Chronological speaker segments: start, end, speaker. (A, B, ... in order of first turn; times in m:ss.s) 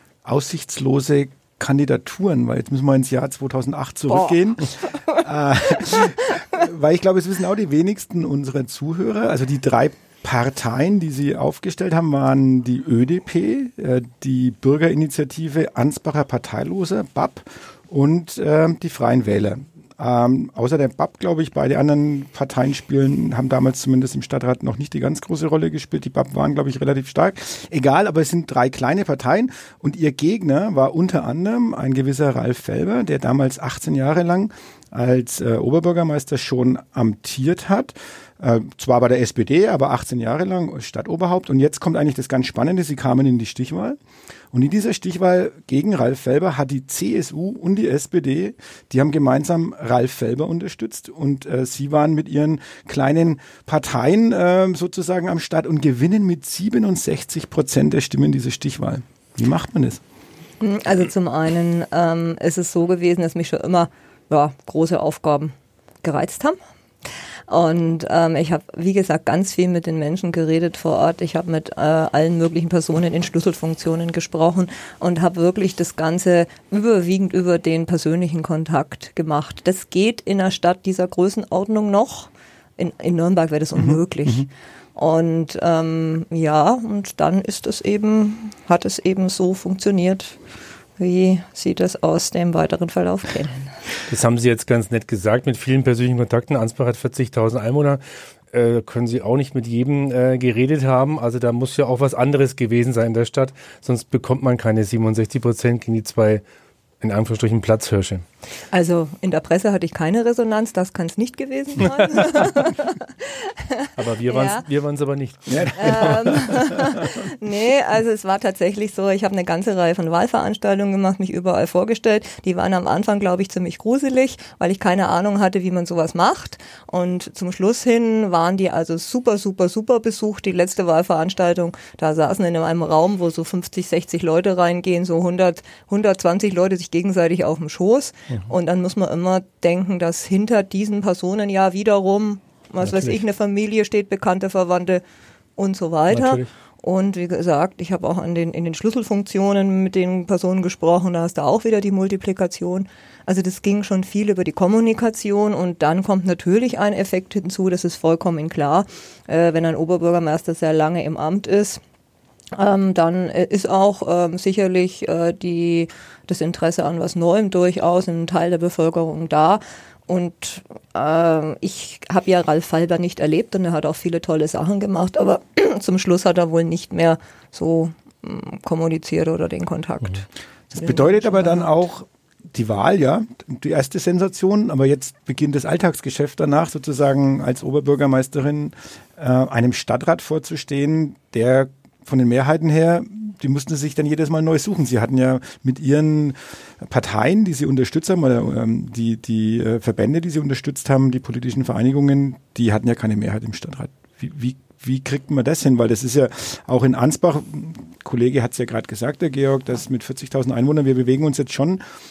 0:00.2-0:44.0 A
0:44.5-1:00.0 A
1:00.6-1:06.6 B
1:07.5-1:30.4 B
1:31.0-1:33.7 B
1:34.1-1:46.4 C
1:47.0-1:48.2 C
1:48.7-1:54.6 B
1:54.0-1:56.4 C
1:55.5-1:57.0 A
1:55.7-2:25.0 B
2:22.8-2:23.2 C
2:25.6-2:41.8 B
2:26.1-2:26.5 C
2:42.5-3:01.7 B
3:00.7-3:31.8 A